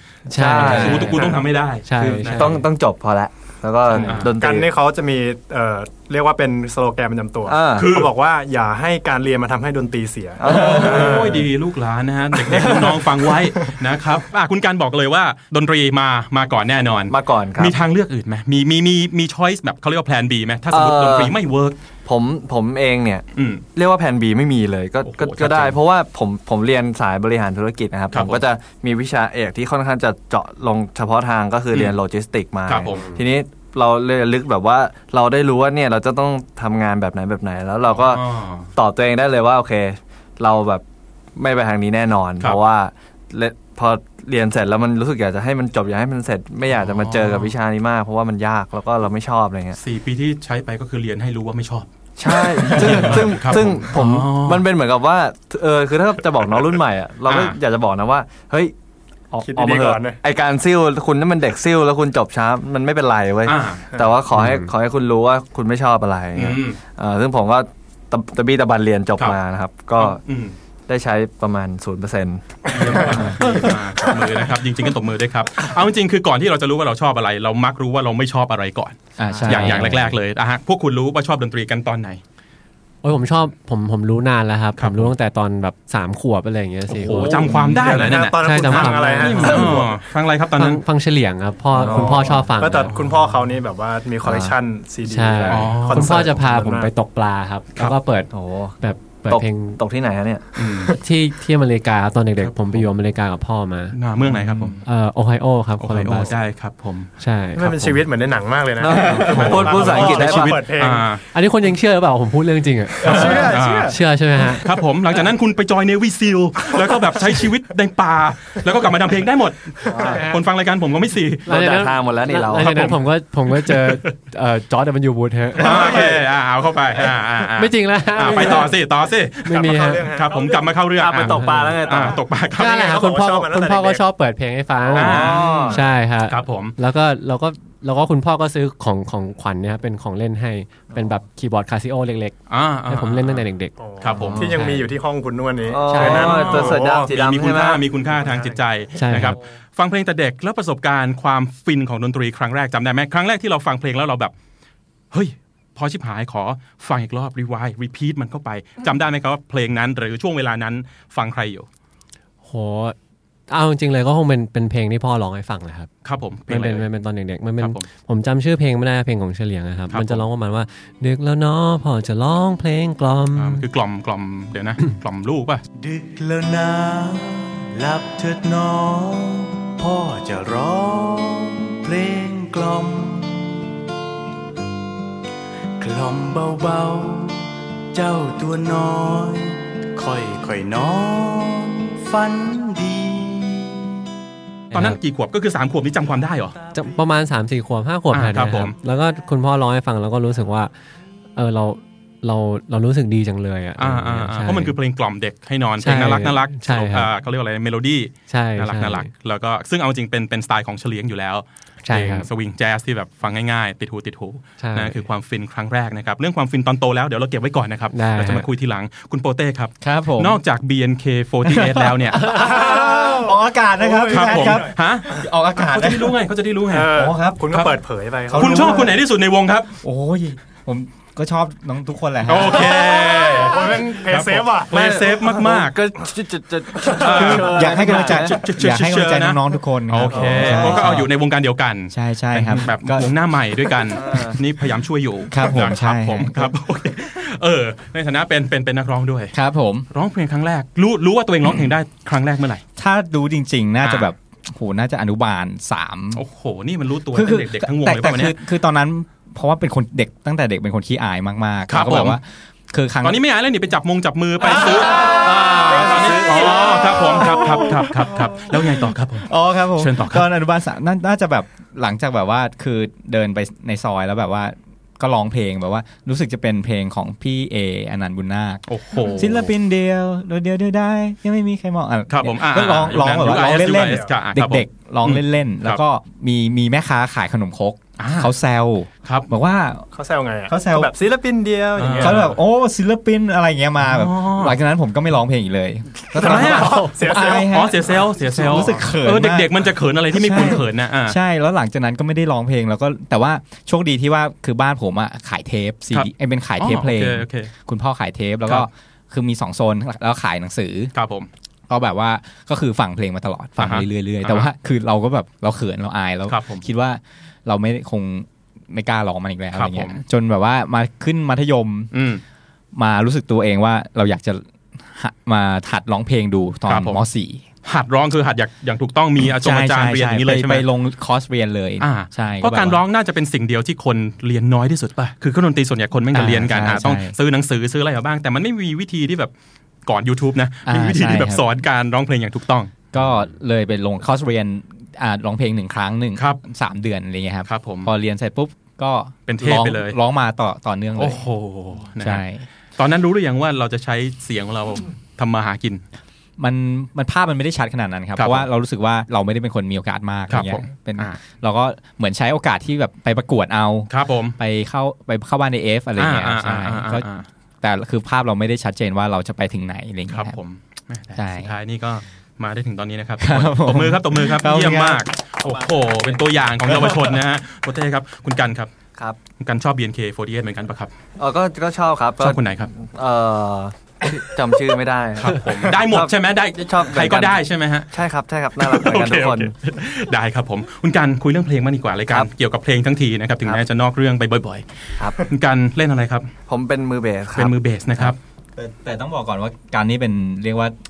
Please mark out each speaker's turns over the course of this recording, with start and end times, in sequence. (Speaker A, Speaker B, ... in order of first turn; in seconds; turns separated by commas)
Speaker A: 0.3-1.3, Speaker B: 0.3-1.4, Speaker C: 0.5-2.6, Speaker D: 0.6-1.1, Speaker E: 1.1-1.4, Speaker A: 1.9-2.7, Speaker B: 1.9-4.7, Speaker C: 4.0-4.3, Speaker E: 4.4-11.4, Speaker B: 7.5-7.9, Speaker C: 7.8-8.1, Speaker B: 10.4-11.4, Speaker C: 10.5-21.8, Speaker B: 12.5-12.8, Speaker B: 17.1-17.8, Speaker B: 20.7-21.4, Speaker B: 22.1-40.8, Speaker C: 23.4-23.6, Speaker C: 25.0-25.8, Speaker C: 28.1-28.4, Speaker C: 31.7-32.0, Speaker C: 32.7-33.0, Speaker C: 37.9-38.7, Speaker B: 41.4-49.8, Speaker C: 46.7-47.5, Speaker C: 49.8-54.7, Speaker B: 52.2-58.7, Speaker C: 57.3-57.6, Speaker B: 59.3-70.2, Speaker E: 59.4-60.2, Speaker C: 63.5-63.9, Speaker A: 64.3-64.7, Speaker C: 66.3-66.8, Speaker C: 70.0-70.5, Speaker B: 70.9-73.7, Speaker C: 72.7-82.2, Speaker D: 79.2-80.2, Speaker B: 79.3-79.9, Speaker A: 83.0-87.8, Speaker C: 84.8-85.1, Speaker C: 86.9-90.8, Speaker E: 87.6-89.9, Speaker A: 88.4-89.8, Speaker A: 90.6-93.0, Speaker B: 91.8-92.5, Speaker E: 91.8-96.9, Speaker B: 94.2-94.5, Speaker A: 95.1-99.8, Speaker C: 95.5-96.1, Speaker B: 98.3-98.8, Speaker B: 99.3-100.5, Speaker C: 100.6-101.0, Speaker A: 101.0-104.0, Speaker C: 102.4-102.8, Speaker C: 103.9-104.8, Speaker B: 104.2-104.8, Speaker A: 104.8-106.3, Speaker C: 105.8-107.1, Speaker A: 107.2-108.0, Speaker E: 107.6-111.1, Speaker B: 108.8-110.6, Speaker C: 109.0-111.2, Speaker A: 111.3-114.7, Speaker E: 113.0-114.0, Speaker C: 113.0-114.0, Speaker C: 114.6-121.5, Speaker B: 119.9-120.2, Speaker E: 119.9-120.2, Speaker A: 120.0-120.4, Speaker B: 121.5-122.9, Speaker A: 121.5-126.1, Speaker C: 122.5-123.0, Speaker C: 125.6-132.9, Speaker E: 125.7-126.1, Speaker A: 127.6-128.7, Speaker A: 129.4-130.1, Speaker E: 129.5-130.7, Speaker B: 131.0-132.2, Speaker A: 131.3-131.8, Speaker E: 132.0-134.1, Speaker A: 132.6-142.4, Speaker B: 134.9-135.8, Speaker C: 134.9-136.8, Speaker C: 142.5-143.4, Speaker A: 142.9-143.7, Speaker E: 143.8-147.2, Speaker C: 144.0-144.4, Speaker B: 144.2-144.6, Speaker A: 144.4-144.9, Speaker B: 145.7-147.8, Speaker A: 145.9-146.7, Speaker C: 146.2-154.3, Speaker E: 148.0-148.6, Speaker A: 149.0-149.4, Speaker C: 155.1-161.7, Speaker A: 162.4-163.0, Speaker A: 163.5-165.9, Speaker C: 166.1-166.8, Speaker A: 166.5-173.7, Speaker C: 167.6-167.9, Speaker C: 169.9-170.2, Speaker C: 173.4-175.6, Speaker F: 175.8-183.8, Speaker F: 185.8-193.9, Speaker A: 194.7-195.0, Speaker C: 194.7-196.6, Speaker F: 196.5-197.1, Speaker A: 196.7-200.7, Speaker C: 198.1-198.7, Speaker A: 201.4-204.7, Speaker C: 203.8-222.2, Speaker A: 205.8-207.1, Speaker A: 208.3-209.1, Speaker A: 211.8-212.3, Speaker A: 214.6-215.0, Speaker A: 217.9-218.5, Speaker D: 219.8-220.4, Speaker D: 221.5-226.2, Speaker E: 222.2-225.2, Speaker C: 224.1-226.9, Speaker E: 226.7-228.9, Speaker D: 226.9-227.6, Speaker D: 228.3-229.0, Speaker C: 228.3-229.8, Speaker D: 229.8-233.2, Speaker C: 232.3-235.8, Speaker E: 233.4-234.7, Speaker B: 234.7-238.4, Speaker C: 237.0-249.3, Speaker D: 237.1-241.1, Speaker B: 240.1-241.1, Speaker D: 241.9-243.1, Speaker B: 243.8-244.4, Speaker D: 245.3-246.6, Speaker D: 249.3-249.9, Speaker C: 249.9-252.6, Speaker D: 252.8-256.2, Speaker C: 253.8-254.1, Speaker C: 256.1-258.3, Speaker D: 257.1-263.2, Speaker C: 261.7-262.2, Speaker C: 263.0-270.3, Speaker D: 264.4-289.9, Speaker C: 278.7-279.5, Speaker C: 282.1-285.8, Speaker E: 283.4-284.1, Speaker C: 288.0-288.3, Speaker E: 289.9-292.4, Speaker D: 290.5-290.9, Speaker C: 291.8-292.4, Speaker D: 292.0-299.5, Speaker C: 293.8-294.6, Speaker E: 296.1-297.6, Speaker C: 296.1-301.2, Speaker D: 300.1-310.9, Speaker C: 305.9-307.5, Speaker C: 310.9-311.3, Speaker D: 311.7-321.9, Speaker C: 313.6-314.5, Speaker C: 316.3-316.6, Speaker C: 319.5-320.0, Speaker C: 321.9-322.2, Speaker D: 322.8-327.4, Speaker C: 326.7-327.0, Speaker C: 327.6-330.6, Speaker D: 329.2-332.8, Speaker C: 331.8-339.3, Speaker D: 336.1-337.1, Speaker C: 339.9-342.7, Speaker D: 340.6-341.4, Speaker D: 342.9-351.2, Speaker C: 346.1-346.4, Speaker C: 347.5-347.9, Speaker C: 349.3-350.0, Speaker C: 351.0-352.2, Speaker D: 352.0-352.4, Speaker C: 352.8-355.8, Speaker D: 356.4-367.1, Speaker C: 358.2-358.5, Speaker C: 360.3-361.2, Speaker C: 363.9-364.4, Speaker C: 366.0-367.3, Speaker D: 367.6-370.4, Speaker C: 370.1-378.7, Speaker D: 371.1-371.5, Speaker D: 373.2-375.1, Speaker C: 379.4-380.9, Speaker B: 381.2-387.4, Speaker C: 382.2-382.7, Speaker C: 385.2-387.9, Speaker B: 387.9-389.5, Speaker C: 388.6-394.6, Speaker C: 395.2-396.3, Speaker B: 396.5-397.6, Speaker C: 397.4-398.2, Speaker D: 398.0-400.8